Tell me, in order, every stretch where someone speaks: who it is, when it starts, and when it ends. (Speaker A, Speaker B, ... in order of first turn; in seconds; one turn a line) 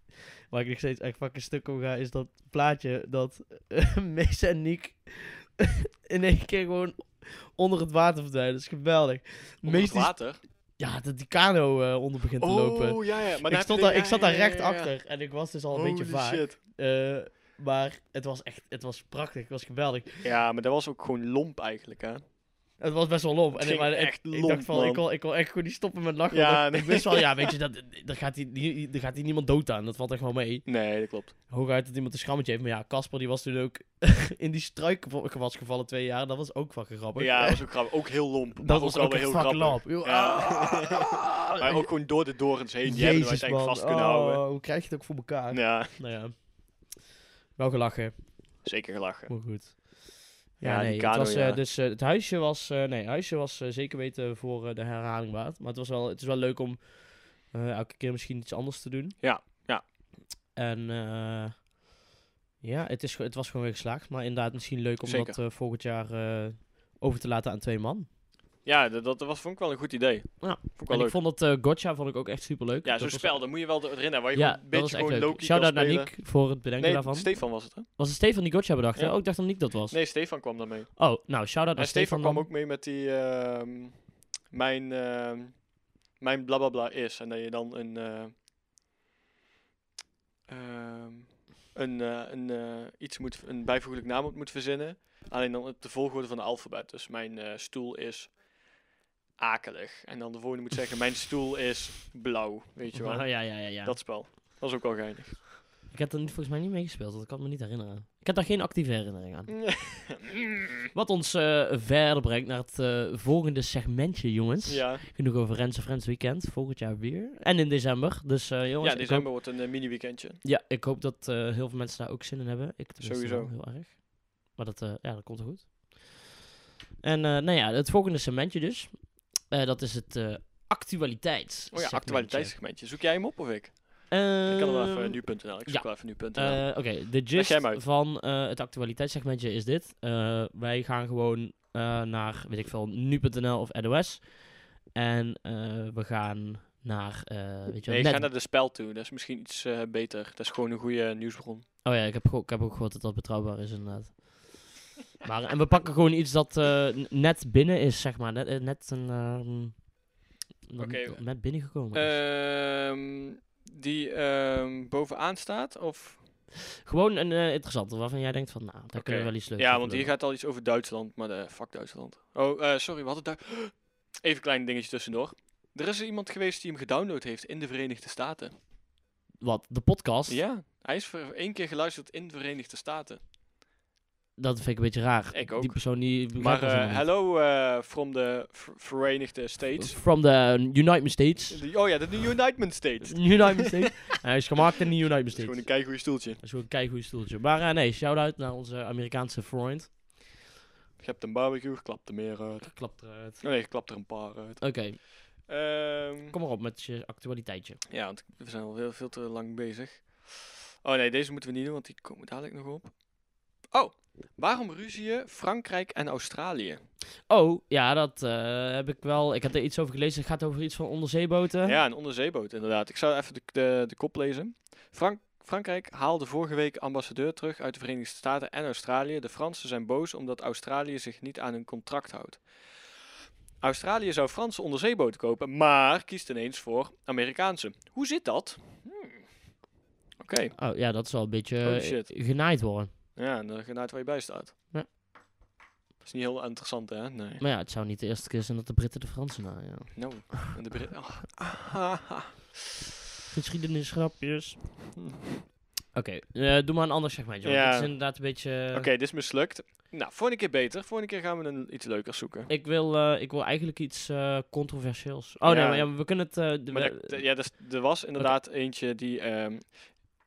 Speaker A: 0.5-20.3
Speaker B: 9.6-10.4
Speaker B: 12.4-14.9
Speaker B: 15.7-16.6
Speaker B: 20.2-22.2
Speaker A: 22.8-30.7
Speaker B: 23.5-25.0
Speaker B: 26.3-27.5
Speaker B: 30.6-31.3
Speaker A: 31.5-37.8
Speaker B: 37.2-44.4
Speaker A: 38.6-41.9
Speaker A: 42.8-46.9
Speaker B: 45.5-46.0
Speaker A: 47.5-48.3
Speaker B: 48.6-49.3
Speaker A: 49.3-59.2
Speaker B: 50.6-51.6
Speaker B: 59.2-59.8
Speaker A: 60.5-61.7
Speaker A: 62.6-68.1
Speaker B: 65.0-65.4
Speaker B: 68.6-71.2
Speaker A: 70.4-73.8
Speaker B: 72.8-77.9
Speaker A: 74.3-80.0
Speaker B: 79.0-81.1
Speaker A: 81.0-82.5
Speaker B: 81.7-88.3
Speaker B: 90.5-98.4
Speaker B: 99.4-105.4
Speaker A: 102.9-104.2
Speaker A: 105.9-109.9
Speaker B: 109.7-110.7
Speaker A: 110.9-119.3
Speaker B: 114.7-115.0
Speaker B: 118.8-120.4
Speaker A: 120.4-126.3
Speaker B: 123.0-123.5
Speaker A: 127.0-132.6
Speaker B: 131.7-137.8
Speaker A: 134.1-148.3
Speaker B: 147.9-151.7
Speaker A: 151.8-159.9
Speaker A: 160.7-162.2
Speaker B: 160.8-166.2
Speaker A: 166.8-170.1
Speaker B: 168.9-178.5
Speaker A: 179.4-180.4
Speaker B: 180.3-183.2
Speaker A: 184.4-187.1
Speaker B: 185.3-190.0
Speaker A: 189.8-191.7
Speaker B: 191.5-193.9
Speaker A: 193.0-200.2
Speaker B: 195.3-196.4
Speaker B: 201.0-206.3
Speaker A: 202.6-203.4
Speaker A: 204.6-205.0
Speaker A: 206.3-207.8
Speaker B: 207.9-213.0
Speaker B: 213.7-216.8
Speaker A: 217.3-221.8
Speaker B: 221.6-232.9
Speaker B: 233.6-239.2
Speaker B: 240.2-240.6
Speaker A: 240.6-242.9
Speaker B: 241.6-242.2
Speaker B: 243.1-244.6
Speaker B: 246.0-247.4
Speaker A: 247.4-250.3
Speaker B: 249.9-252.4
Speaker A: 253.3-254.6
Speaker B: 255.0-255.4
Speaker A: 255.9-258.9
Speaker B: 257.4-262.5
Speaker A: 262.5-267.5
Speaker B: 265.4-270.0